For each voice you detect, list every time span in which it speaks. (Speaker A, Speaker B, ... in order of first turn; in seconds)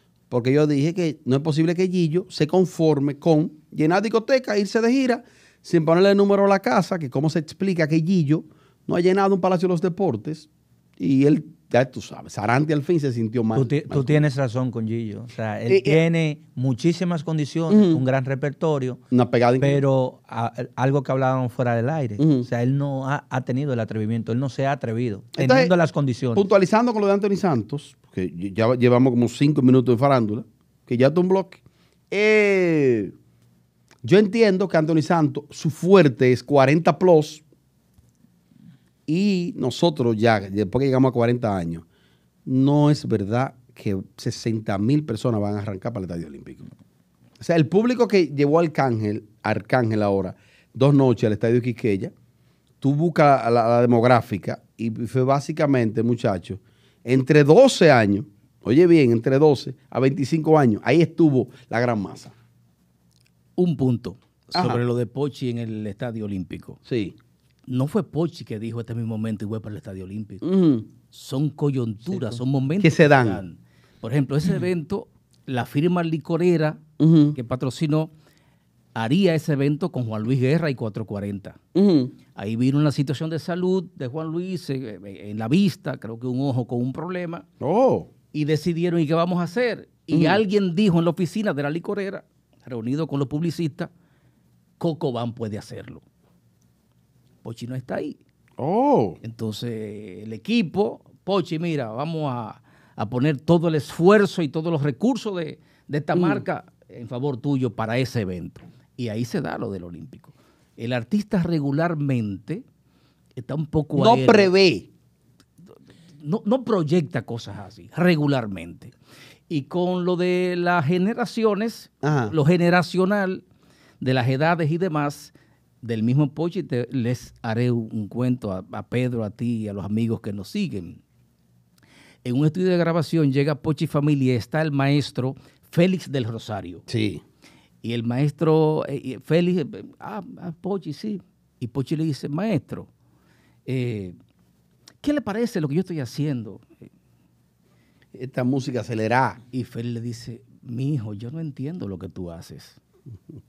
Speaker A: 0.3-14.2, 15.7-16.0, 17.7-18.0, 19.1-19.8, 22.2-22.4, 25.4-25.7, 26.3-31.6, 32.1-33.1, 34.0-37.4, 39.1-41.8, 42.5-46.7, 47.4-52.1, 52.8-62.3, 64.5-64.8, 66.8-67.2, 70.4-70.8, 72.1-73.4, 77.0-77.4, 81.7-82.1, 87.6-88.1, 90.1-90.4, 98.6-99.2, 106.1-106.4, 113.9-114.9, 122.0-122.3, 136.9-137.2, 148.1-149.4
Speaker B: 13.5-19.0, 19.6-26.4
Speaker C: 63.6-66.8, 67.7-70.5, 71.1-76.8, 77.3-78.1, 78.9-81.6, 82.3-87.4, 88.3-93.9, 94.8-96.0, 97.4-98.2, 99.2-112.6, 113.3-114.5, 116.2-118.9, 119.5-123.4, 124.0-131.0, 132.2-136.8, 137.8-142.9, 143.7-144.1, 145.0-146.7, 149.5-152.8